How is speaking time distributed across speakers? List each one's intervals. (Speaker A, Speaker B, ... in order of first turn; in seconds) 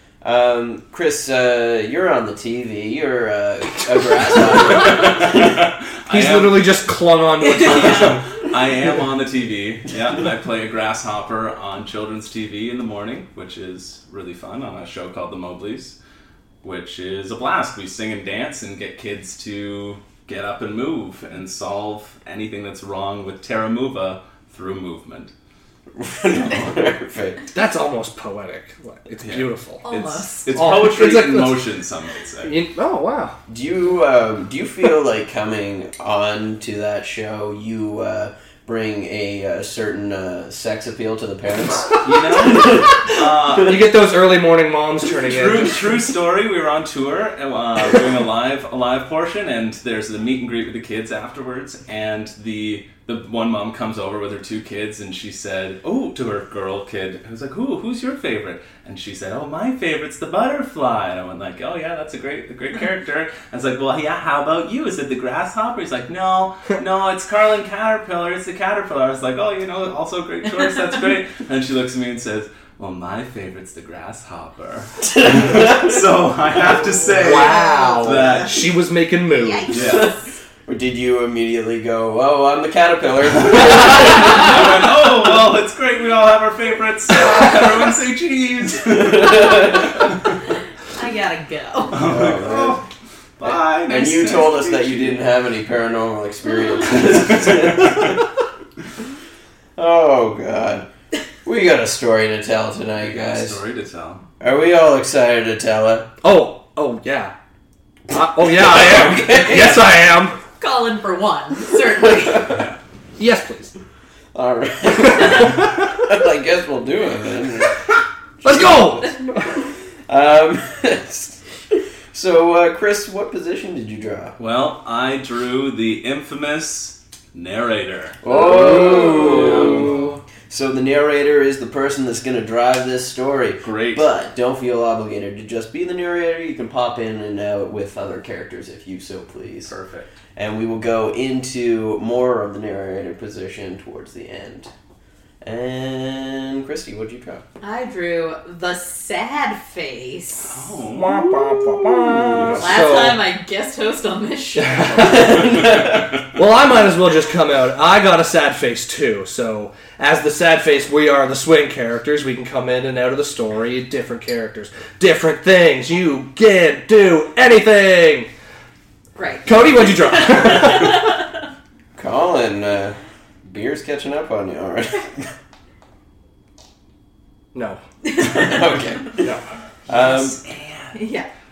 Speaker A: 0.2-5.5, 25.9-27.4, 33.5-43.6, 75.0-76.0, 76.5-77.0, 79.7-80.1, 80.7-84.7, 88.8-90.1, 92.0-92.8, 93.4-98.2, 99.8-100.9, 101.4-103.6, 104.4-106.1, 108.4-109.8, 111.9-112.6, 114.3-117.8, 118.4-124.3, 128.2-139.7, 140.3-144.7, 145.4-147.4, 155.0-156.1, 171.9-175.3, 178.2-179.3, 179.9-180.4
Speaker B: 4.3-6.8, 7.6-15.9, 16.6-25.3, 29.2-32.6, 42.0-43.9, 45.2-78.6, 79.7-80.1, 83.4-90.4, 91.9-92.8, 93.4-95.2, 97.0-98.2, 103.0-104.2, 112.4-112.8, 124.4-130.1, 133.6-134.1, 139.7-140.1, 150.4-152.7, 155.5-155.9, 179.9-180.9
Speaker C: 6.1-8.2, 27.5-29.8, 30.5-31.7, 32.4-33.4, 43.6-46.0, 77.1-79.7, 106.2-107.3, 108.1-110.4, 113.2-113.7, 118.4-119.2, 128.5-129.2, 150.8-153.2, 154.5-155.7, 156.3-168.3, 169.4-171.0, 177.5-177.8
Speaker D: 7.4-8.2, 29.8-30.8, 77.3-78.3, 79.3-80.3, 90.9-92.0, 110.6-112.5, 128.7-129.3, 129.8-130.2, 147.6-150.6, 152.6-155.1, 169.2-171.3, 178.1-178.6, 180.9-181.3